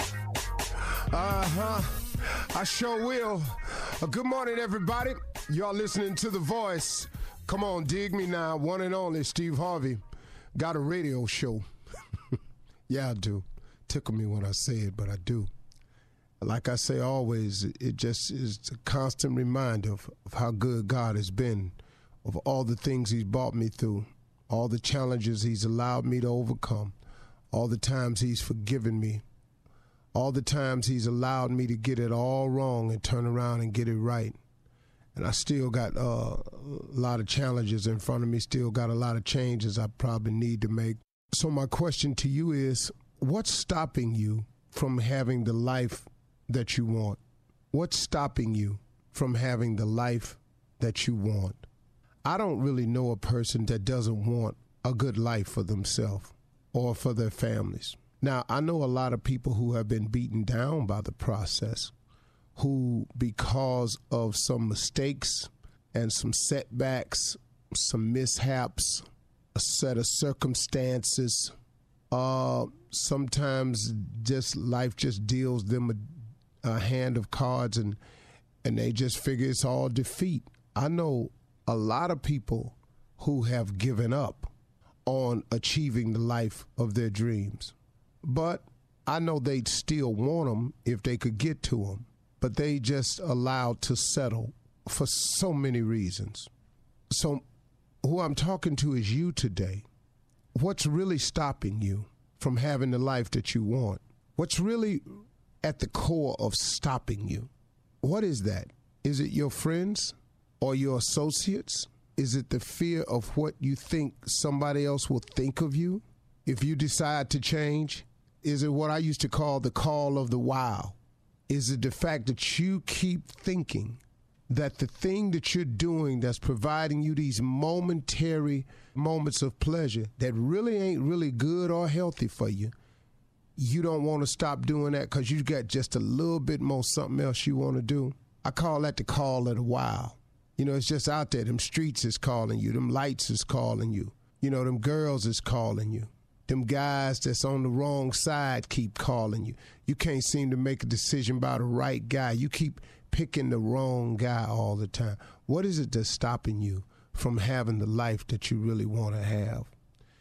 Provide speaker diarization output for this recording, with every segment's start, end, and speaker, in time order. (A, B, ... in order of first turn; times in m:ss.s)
0:01.1-0:10.0 A
0:10.5-0:11.6 A
0:12.9-0:15.5 A
0:16.4-0:26.9 A
0:27.5-0:29.2 A
0:30.1-0:34.4 A
0:35.1-0:47.2 A
0:47.7-0:51.6 A
0:52.2-1:01.9 A
1:02.6-1:11.5 A
1:12.1-1:18.0 A
1:18.6-1:24.5 A
1:25.0-1:36.5 A
1:37.1-1:37.4 A
1:38.0-1:39.8 A
1:40.5-1:47.5 A
1:48.0-2:01.0 A
2:01.5-2:12.7 A
2:13.6-2:39.7 A